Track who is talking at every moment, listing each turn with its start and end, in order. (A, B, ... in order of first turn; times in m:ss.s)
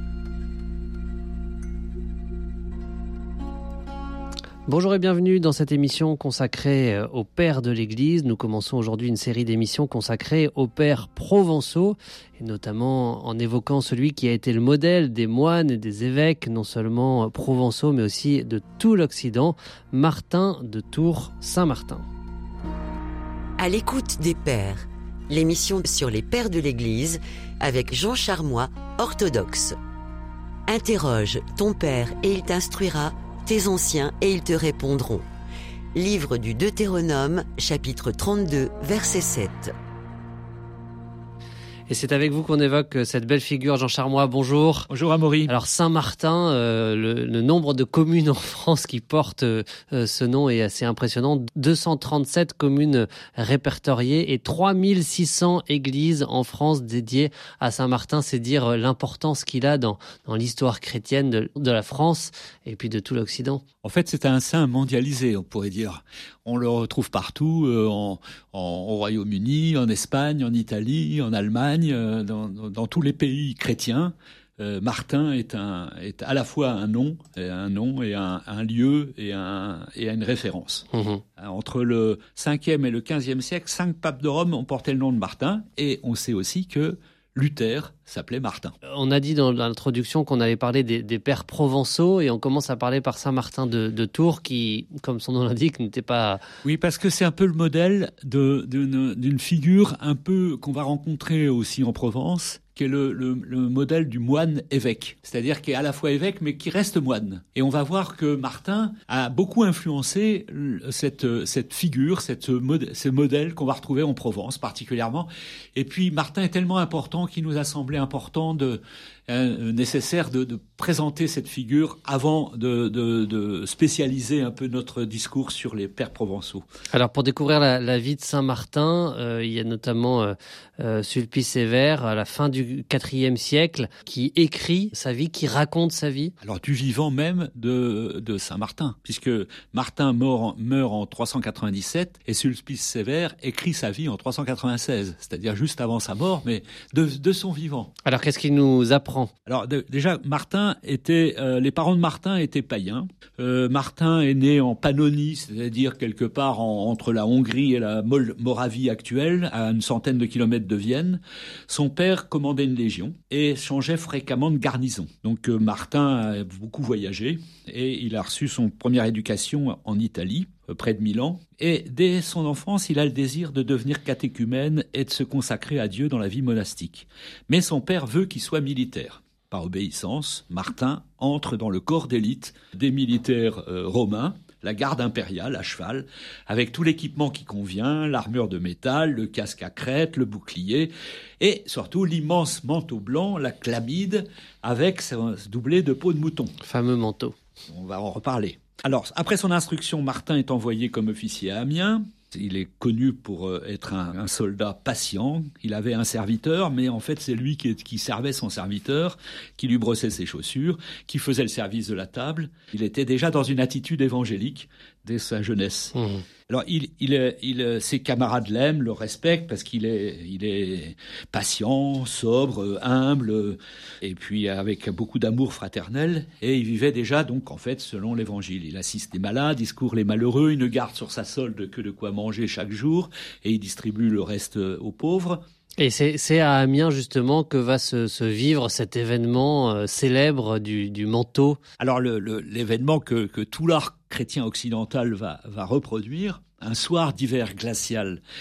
0:04.7-0:22.1 A
0:23.6-0:29.8 B
0:30.7-0:35.2 B
0:36.0-0:39.7 B
0:41.9-0:44.9 A
0:44.9-0:45.5 C
0:45.5-1:03.6 A
1:03.8-1:28.7 C
1:20.9-1:21.2 A
1:28.9-1:36.4 A
1:36.6-2:06.6 C
2:06.9-2:16.3 A
2:16.4-2:27.9 C
2:28.0-2:29.3 A
2:29.4-3:16.5 C
3:16.6-3:17.3 A
3:17.7-3:35.9 C
3:36.0-3:36.2 A
3:36.5-3:55.4 C
3:55.8-4:01.6 A
4:01.8-4:08.2 C